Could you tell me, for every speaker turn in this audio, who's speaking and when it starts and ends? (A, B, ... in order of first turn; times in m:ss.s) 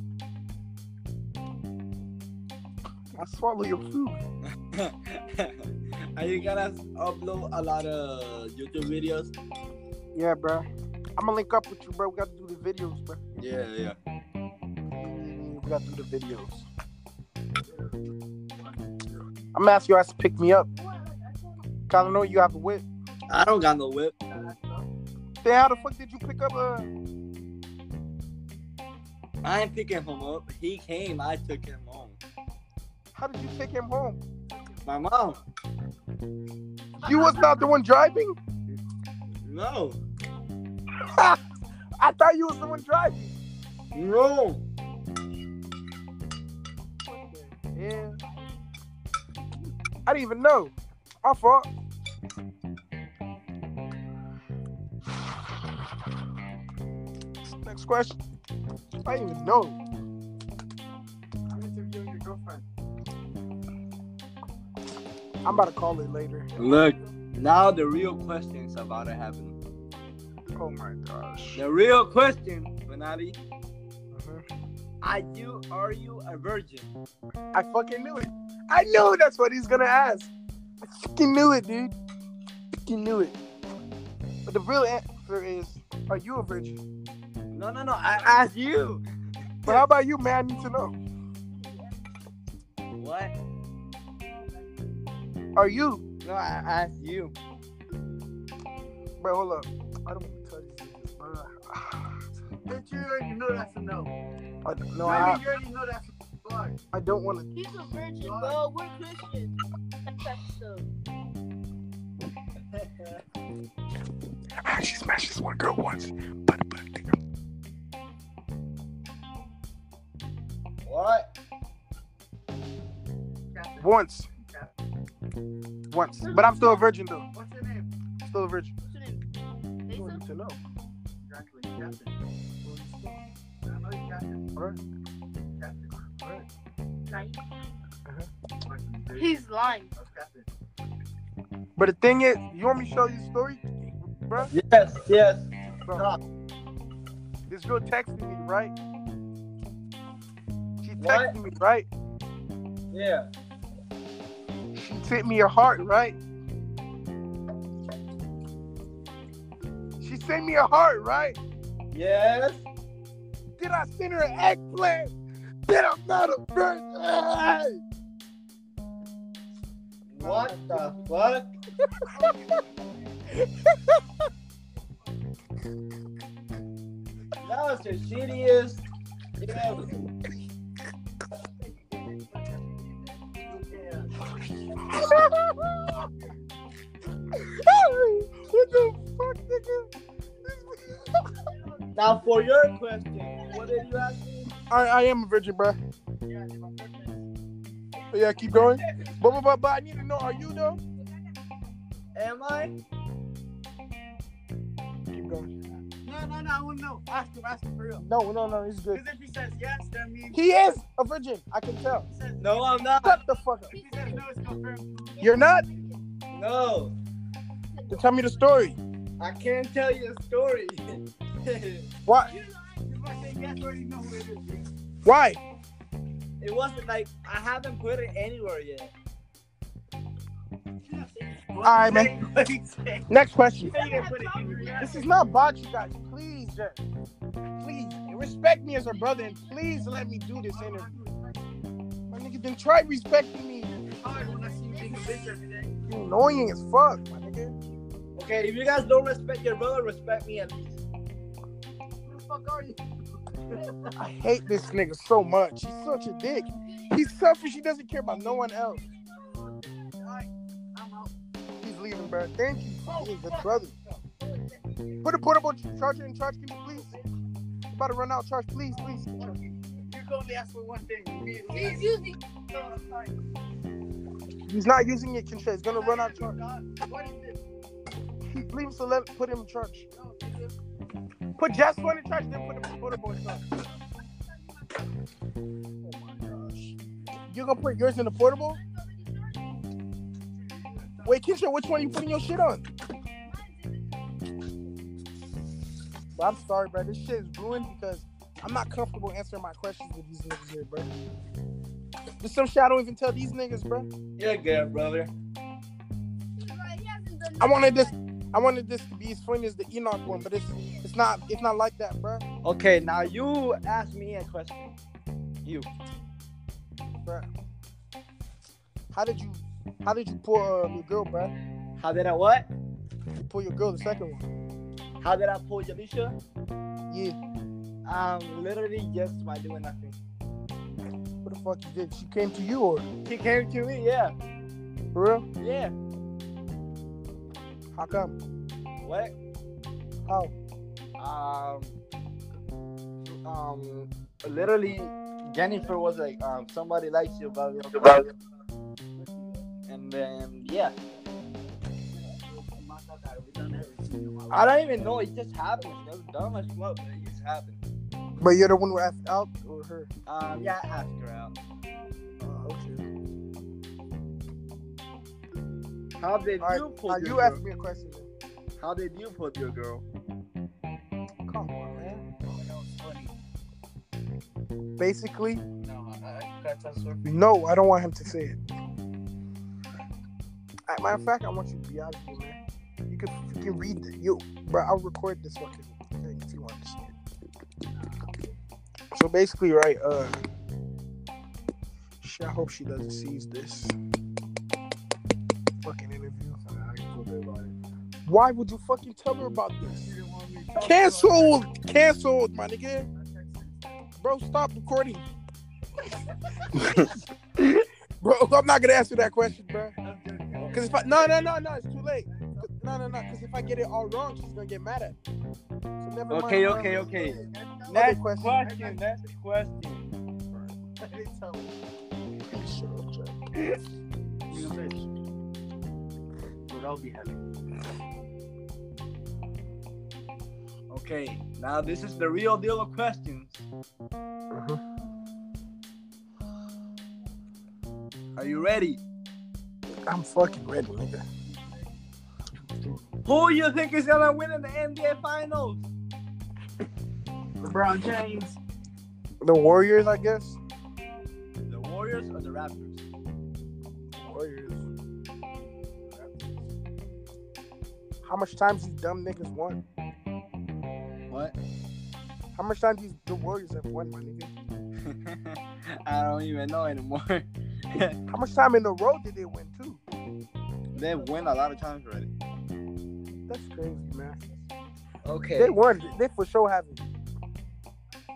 0:03.1-0:04.2 A
0:04.5-0:09.3 B
0:10.2-0:10.6 A
0:11.2-0:13.2 A
0:13.4-0:14.0 B
0:14.9-0:16.7 A
0:17.6-0:19.3 C
0:19.6-0:20.7 A
0:20.7-0:21.7 D
0:21.9-0:22.8 A
0:23.3-0:24.1 B
0:24.3-0:24.9 C
0:25.4-0:26.9 A
0:29.4-0:32.2 B
0:33.2-0:34.2 A
0:34.5-0:34.8 C
0:34.8-0:35.4 B
0:37.0-0:38.4 A
0:39.4-0:40.0 B
0:41.0-0:41.4 A
0:42.0-0:43.3 A
0:43.9-0:44.6 B
0:47.1-0:48.5 D
0:47.5-0:48.2 A
0:50.1-0:51.7 A
0:57.5-0:58.2 A
0:59.0-0:59.8 A
1:01.5-1:02.6 C
1:05.4-1:06.5 A
1:06.6-1:06.9 C
1:06.6-1:09.6 B
1:10.6-1:11.6 A
1:11.6-1:13.4 B
1:14.1-1:14.4 A
1:15.0-1:16.9 B
1:17.5-1:20.3 A
1:20.8-1:22.0 A
1:22.9-1:23.4 A
1:24.5-1:26.8 A
1:27.5-1:29.0 B
1:29.6-1:31.0 A
1:31.5-1:32.0 D
1:33.0-1:33.3 B
1:35.6-1:36.0 A
1:36.2-1:37.4 B
1:39.2-1:42.1 A
1:42.6-1:44.1 C
1:44.6-1:45.4 A
1:45.0-1:46.8 C
1:46.9-1:47.5 A
1:47.5-1:49.5 D
1:48.2-1:48.6 C
1:50.1-1:50.9 D
1:52.7-1:53.2 B
1:54.6-1:57.2 A
2:00.8-2:01.3 B
2:03.5-2:04.7 C
2:03.8-2:04.3 A
2:05.9-2:07.2 A
2:06.2-2:06.8 D
2:07.3-2:07.9 C
2:08.2-2:08.7 A
2:08.9-2:09.2 D
2:09.9-2:10.2 D
2:09.9-2:10.6 A
2:11.2-2:12.1 C
2:12.6-2:13.2 A
2:13.7-2:14.5 C
2:15.4-2:16.1 C
2:17.1-2:17.4 D
2:18.6-2:20.5 C
2:19.2-2:19.9 D
2:21.8-2:24.5 A
2:24.4-2:26.2 B
2:27.5-2:28.7 A
2:30.8-2:31.9 A
2:31.0-2:31.3 B
2:32.9-2:33.3 B
2:34.7-2:36.2 A
2:40.0-2:41.4 A
2:41.9-2:42.6 B
2:43.6-2:45.1 A
2:45.7-2:47.8 A
2:50.1-2:51.5 B
2:50.2-2:50.9 A
2:51.9-2:52.3 A
2:52.2-2:52.7 C
2:53.4-2:54.0 A
2:57.4-2:58.8 B
2:59.4-2:59.9 B
3:01.6-3:05.3 C
3:04.8-3:06.0 A
3:05.9-3:06.4 C
3:07.3-3:09.9 A
3:10.4-3:11.4 A
3:11.5-3:12.4 C
3:12.0-3:14.5 B
3:13.4-3:13.9 D
3:14.7-3:15.8 A
3:16.2-3:17.3 C
3:18.1-3:20.8 A
3:18.4-3:19.1 C
3:18.7-3:19.4 D
3:21.0-3:21.3 D
3:22.2-3:22.8 B
3:25.1-3:25.5 A
3:26.0-3:28.0 C
3:28.0-3:29.0 A
3:28.9-3:30.5 C
3:30.3-3:32.1 A
3:32.1-3:32.8 C
3:32.4-3:33.2 B
3:33.0-3:33.8 A
3:33.7-3:34.6 D
3:33.8-3:35.3 C
3:35.2-3:36.0 D
3:35.2-3:35.6 A
3:36.3-3:36.9 B
3:37.7-3:38.1 D
3:37.9-3:38.8 A
3:39.2-3:41.9 B
3:42.1-3:42.3 A
3:42.3-3:42.8 D
3:42.9-3:44.7 C
3:45.0-3:45.4 A
3:46.4-3:48.9 B
3:50.8-3:53.1 C
3:51.6-3:52.1 A
3:53.1-3:53.7 A
3:53.7-3:55.0 C
3:53.7-3:55.2 D
3:54.8-3:56.8 A
3:57.6-4:00.9 A
3:59.2-3:59.7 D
4:00.5-4:01.6 C
4:02.1-4:03.7 A
4:03.8-4:05.3 D
4:03.9-4:05.7 C
4:05.9-4:07.6 A
4:08.2-4:10.8 B
4:12.0-4:12.8 C
4:13.3-4:13.9 C
4:14.0-4:18.8 A
4:19.1-4:21.2 C
4:21.6-4:23.7 A
4:22.9-4:25.0 C
4:25.0-4:27.0 A
4:26.7-4:27.1 C
4:27.7-4:29.2 A
4:29.2-4:32.0 C
4:31.5-4:32.2 D
4:32.5-4:33.1 C
4:34.5-4:36.4 A
4:35.7-4:37.4 C
4:38.3-4:39.9 A
4:39.9-4:40.6 C
4:41.4-4:43.4 A
4:44.3-4:44.7 D
4:45.8-4:46.7 C
4:47.3-4:48.6 A
4:48.5-4:49.6 D
4:50.3-4:51.2 C
4:51.0-4:52.6 A
4:53.2-4:54.0 D
4:56.2-5:00.9 A
5:02.2-5:03.9 A
5:04.2-5:05.1 B
5:06.4-5:07.9 D
5:07.4-5:12.2 A
5:10.4-5:10.8 D
5:12.4-5:14.8 B
5:18.9-5:21.3 A
5:21.8-5:22.5 B
5:23.2-5:24.2 A
5:25.0-5:26.2 B
5:26.9-5:27.2 A
5:27.8-5:30.0 B
5:31.2-5:32.9 A
5:33.0-5:34.2 B
5:34.9-5:35.3 A
5:35.4-5:35.8 B
5:37.7-5:38.2 A
5:38.8-5:39.2 B
5:40.1-5:40.3 A
5:41.0-5:41.8 B
5:43.1-5:48.1 B
5:49.0-5:49.4 C
5:49.7-5:50.8 B
5:51.9-5:54.9 C
5:54.3-5:57.6 B
5:58.2-5:59.9 A
6:00.1-6:01.4 B
6:02.2-6:02.8 A
6:06.0-6:07.4 B
6:06.4-6:08.1 A
6:08.6-6:09.8 B
6:11.3-6:12.1 A
6:12.3-6:13.1 B
6:14.8-6:15.4 A
6:15.6-6:17.0 B
6:17.0-6:18.4 A
6:20.7-6:26.9 A
6:27.7-6:28.4 C
6:28.9-6:30.2 A
6:32.0-6:33.8 A
6:35.6-6:36.4 A
6:36.5-6:37.5 C
6:38.1-6:40.0 A
6:39.7-6:41.4 C
6:40.6-6:42.9 A
6:42.9-6:43.9 C
6:44.0-6:45.0 A
6:48.0-6:49.8 A
6:49.8-6:51.4 C
6:50.5-6:55.0 A
6:52.0-6:52.5 C
6:55.8-6:56.9 A
6:56.1-6:57.2 B
6:56.4-6:57.7 C
6:57.2-6:57.7 D
6:57.7-6:58.4 A
6:57.7-6:59.9 B
6:58.3-6:58.8 C
7:00.8-7:01.6 C
7:02.3-7:03.2 A
7:04.3-7:04.9 C
7:06.5-7:07.2 C
7:10.7-7:13.4 B
7:14.3-7:14.6 A
7:18.2-7:18.8 B
7:19.9-7:21.0 A
7:21.3-7:21.6 C
7:23.0-7:25.7 B
7:27.4-7:28.4 C
7:29.2-7:30.4 A
7:31.5-7:32.8 B
7:34.0-7:34.6 A
7:35.9-7:36.3 C
7:38.0-7:39.6 A
7:41.1-7:41.4 B
7:42.4-7:44.3 A
7:44.8-7:48.0 B
7:48.1-7:49.8 A
7:50.7-7:52.1 B
7:53.3-7:54.2 A
7:55.0-7:55.6 B
7:55.4-7:56.8 A